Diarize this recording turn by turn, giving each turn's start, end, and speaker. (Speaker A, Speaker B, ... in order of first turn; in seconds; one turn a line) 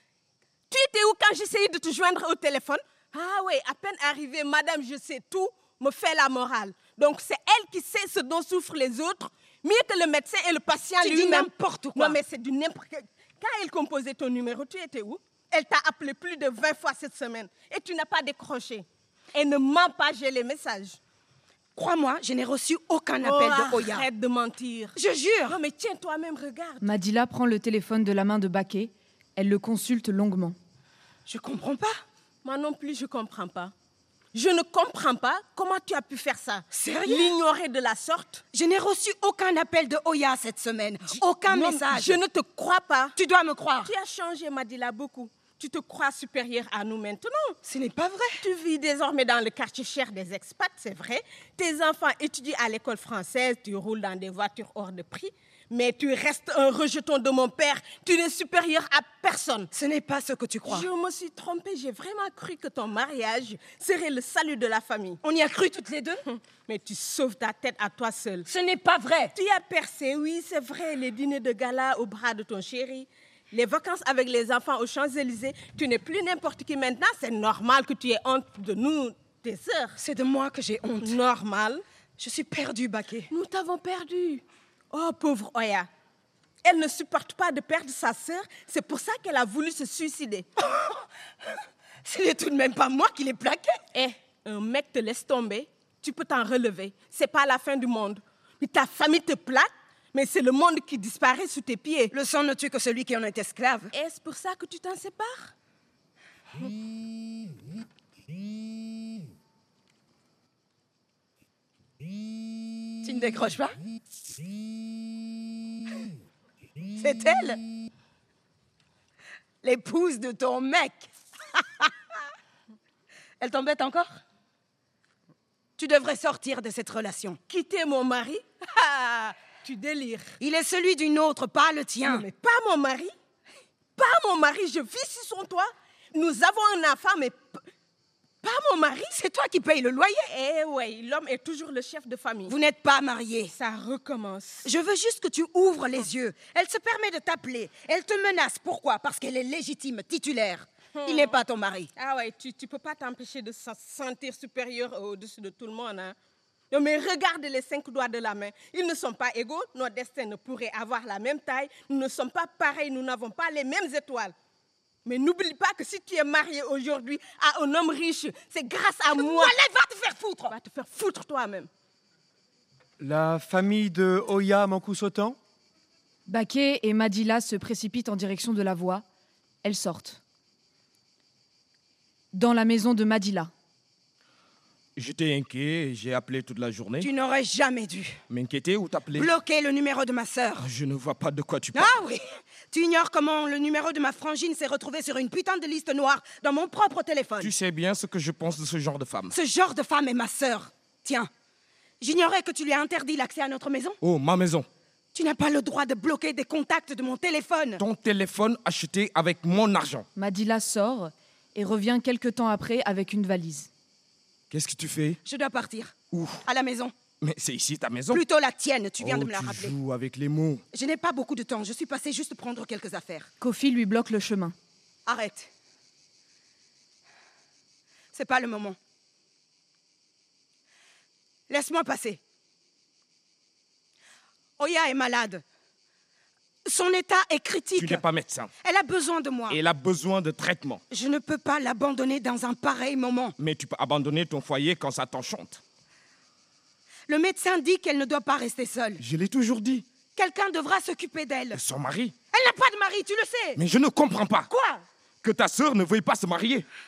Speaker A: 0.7-21.0
Speaker B: 11.0-12.2
Speaker B: 21.8-24.1
Speaker A: 23.2-26.8
Speaker B: 24.9-25.6
Speaker C: 26.8-30.6
Speaker B: 31.2-32.0
Speaker A: 32.4-33.7
Speaker A: 34.3-38.4
Speaker B: 36.7-37.3
Speaker B: 38.5-42.2
Speaker A: 41.5-43.2
Speaker B: 43.1-43.9
Speaker A: 43.8-47.6
Speaker B: 47.6-48.4
Speaker A: 48.4-59.7
Speaker B: 59.7-60.9
Speaker A: 60.6-65.2
Speaker B: 65.2-66.2
Speaker A: 66.5-68.5
Speaker B: 68.5-69.3
Speaker A: 69.3-80.0
Speaker B: 80.0-81.2
Speaker A: 81.0-81.8
Speaker B: 82.2-83.3
Speaker A: 83.3-85.9
Speaker A: 86.6-90.5
Speaker B: 90.6-91.0
Speaker B: 92.0-93.8
Speaker A: 93.9-102.1
Speaker B: 102.1-103.9
Speaker A: 103.9-105.5
Speaker B: 113.0-113.8
Speaker B: 117.0-117.6
Speaker B: 119.6-121.9
Speaker B: 123.4-124.1
Speaker B: 125.8-127.4
Speaker A: 127.5-130.3
Speaker B: 130.4-132.2
Speaker A: 132.0-133.1
Speaker A: 134.0-137.6
Speaker A: 138.4-139.2
Speaker B: 139.1-140.3
Speaker A: 140.3-142.6
Speaker B: 142.5-143.5
Speaker A: 143.5-144.7
Speaker B: 144.6-151.9
Speaker A: 150.9-151.4
Speaker A: 151.9-156.1
Speaker A: 156.7-164.3
Speaker A: 165.0-169.6
Speaker B: 169.1-170.5
Speaker A: 170.5-171.7
Speaker D: 173.0-175.4
Speaker C: 176.3-179.0
Speaker C: 179.6-180.2
Speaker C: 182.3-183.5
Speaker E: 184.9-187.1
Speaker B: 187.0-188.2
Speaker E: 188.3-189.3
Speaker B: 189.1-190.7
Speaker E: 190.6-191.9
Speaker B: 191.7-197.5
Speaker E: 197.4-199.3
Speaker B: 199.3-201.3
Speaker B: 202.0-204.0
Speaker E: 204.0-204.7
Speaker B: 205.1-207.8
Speaker E: 207.8-210.1
Speaker C: 210.2-213.7
Speaker E: 214.5-215.2
Speaker B: 215.2-216.9
Speaker E: 216.1-216.4
Speaker E: 217.2-218.2
Speaker B: 218.1-219.7
Speaker E: 219.0-220.6
Speaker B: 220.7-223.3
Speaker C: 223.4-224.5
Speaker B: 225.1-225.5
Speaker B: 228.1-228.8
Speaker B: 231.5-232.2
Speaker B: 234.6-235.4
Speaker B: 236.6-238.0
Speaker E: 237.8-238.5
Speaker B: 238.6-239.6
Speaker E: 239.5-240.8
Speaker B: 240.9-243.3
Speaker E: 243.4-245.6
Speaker B: 247.1-249.0
Speaker E: 249.0-249.8
Speaker B: 250.1-251.6
Speaker E: 251.5-252.1
Speaker B: 252.3-253.6
Speaker E: 253.6-254.5
Speaker B: 254.5-254.8
Speaker E: 255.2-256.6